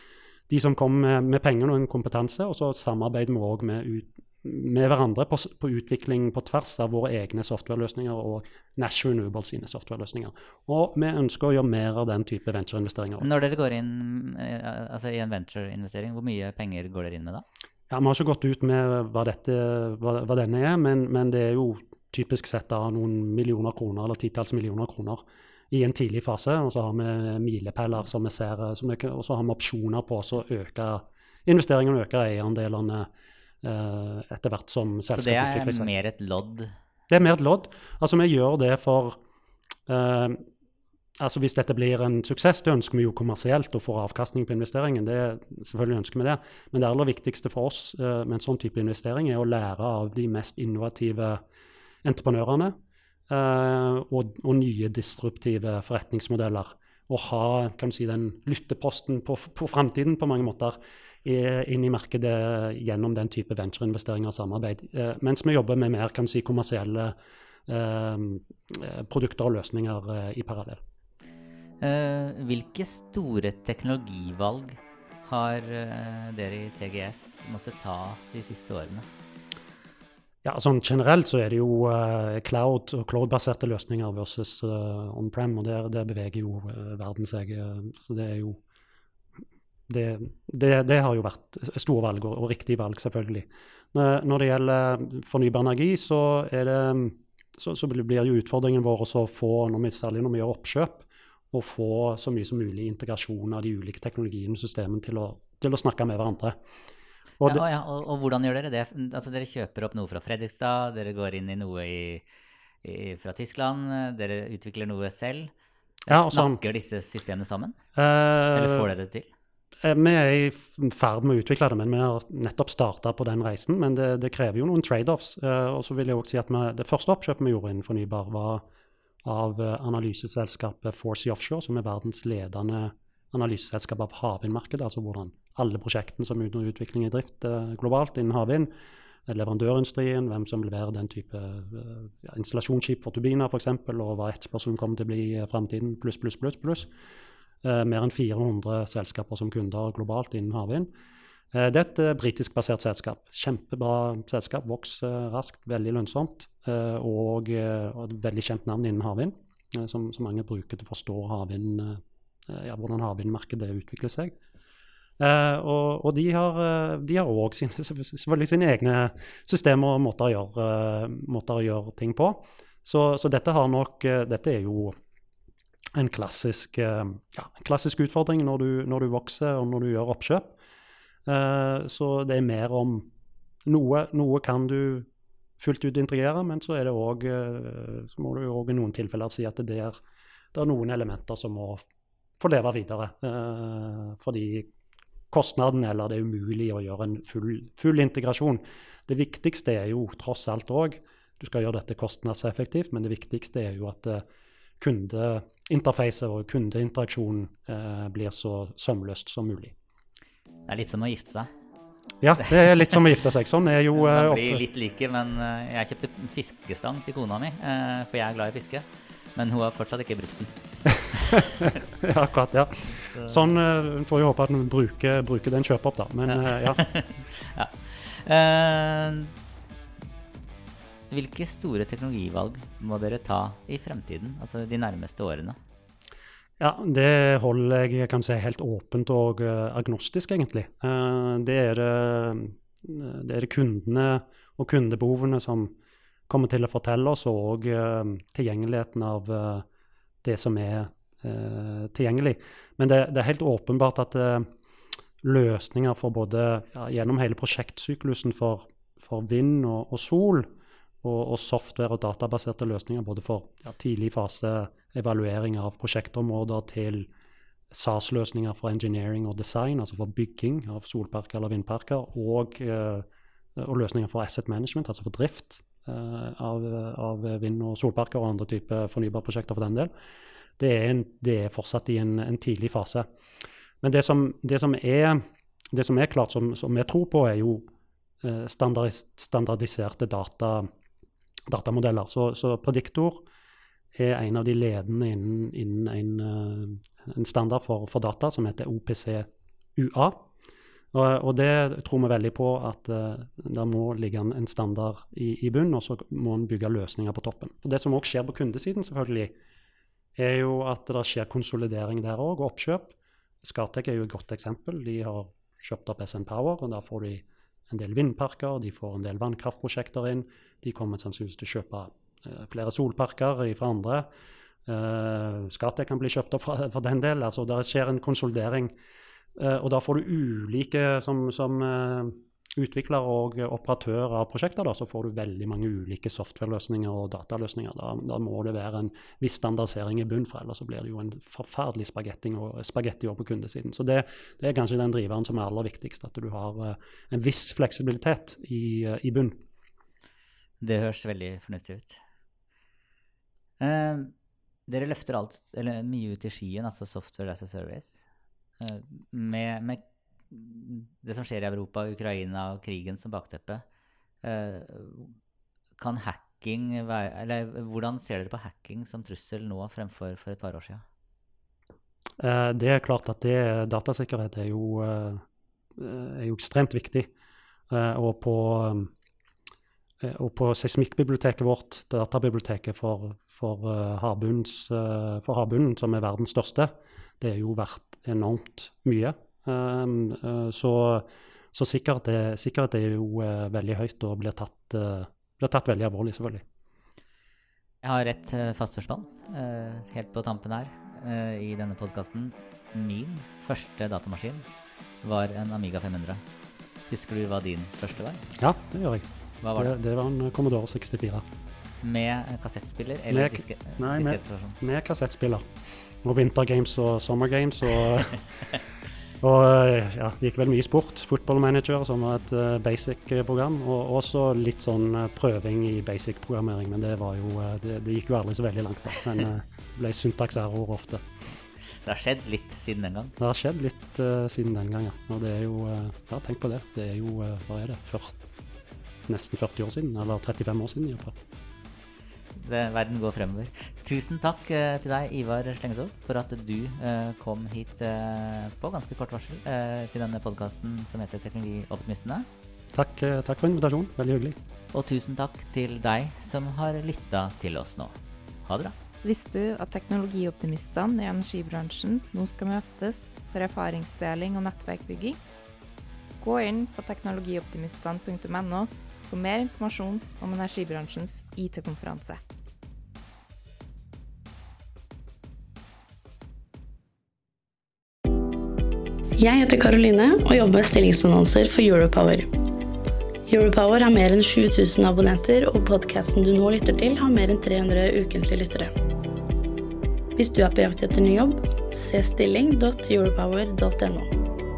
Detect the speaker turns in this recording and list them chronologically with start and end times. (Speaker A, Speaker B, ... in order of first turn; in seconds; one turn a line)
Speaker A: 0.5-13.3
Speaker B: 13.2-17.4
Speaker A: 17.9-33.1
Speaker A: 33.6-35.9
Speaker B: 35.1-36.7
Speaker A: 37.1-39.2
Speaker A: 39.9-40.4
Speaker A: 41.2-51.4
Speaker A: 52.0-52.7
Speaker A: 53.3-67.1
Speaker A: 67.7-70.8
Speaker B: 71.8-79.1
Speaker A: 80.4-88.6
Speaker A: 89.9-106.5
Speaker B: 107.4-112.2
Speaker B: 112.8-115.5
Speaker B: 116.0-117.8
Speaker A: 116.1-116.6
Speaker A: 118.0-118.9
Speaker B: 118.5-119.3
Speaker A: 119.8-128.6
Speaker A: 129.2-138.7
Speaker A: 139.3-146.9
Speaker A: 147.6-150.9
Speaker A: 151.5-164.3
Speaker A: 165.2-174.9
Speaker A: 175.9-180.6
Speaker A: 181.2-183.1
Speaker A: 183.7-185.1
Speaker A: 185.6-190.0
Speaker A: 190.5-191.8
Speaker A: 192.4-194.7
Speaker A: 195.3-204.2
Speaker A: 204.8-209.7
Speaker B: 210.7-211.5
Speaker A: 212.2-214.6
Speaker B: 213.9-220.5
Speaker B: 221.1-221.7
Speaker A: 221.3-226.8
Speaker B: 222.9-223.4
Speaker B: 226.5-229.3
Speaker B: 231.1-235.6
Speaker A: 236.6-245.7
Speaker A: 246.3-249.7
Speaker A: 250.2-254.5
Speaker A: 255.2-260.5
Speaker A: 261.0-267.1
Speaker A: 267.7-279.9
Speaker A: 280.6-283.1
Speaker A: 283.8-285.2
Speaker A: 285.7-287.7
Speaker A: 288.2-290.7
Speaker A: 291.5-293.3
Speaker A: 293.9-300.3
Speaker A: 300.9-309.3
Speaker A: 310.1-324.1
Speaker A: 324.6-328.7
Speaker A: 329.4-349.4
Speaker B: 350.6-352.0
Speaker B: 353.6-354.1
Speaker B: 354.7-358.0
Speaker B: 358.6-363.6
Speaker B: 364.2-365.1
Speaker B: 365.8-370.8
Speaker A: 372.2-375.2
Speaker A: 375.8-377.1
Speaker A: 377.7-378.9
Speaker A: 380.0-396.4
Speaker B: 397.8-404.4
Speaker B: 405.0-406.2
Speaker B: 406.9-408.2
Speaker A: 408.4-409.0
Speaker B: 409.4-409.7
Speaker A: 409.6-411.2
Speaker B: 411.8-414.6
Speaker A: 413.1-415.4
Speaker A: 416.0-418.2
Speaker A: 419.2-431.0
Speaker B: 431.8-433.1
Speaker A: 433.2-438.2
Speaker A: 439.1-441.1
Speaker B: 442.3-452.3
Speaker A: 452.7-454.4
Speaker B: 454.7-458.7
Speaker C: 459.0-465.2
Speaker C: 466.2-472.2
Speaker D: 479.2-482.3
Speaker D: 483.3-488.7
Speaker D: 490.1-494.1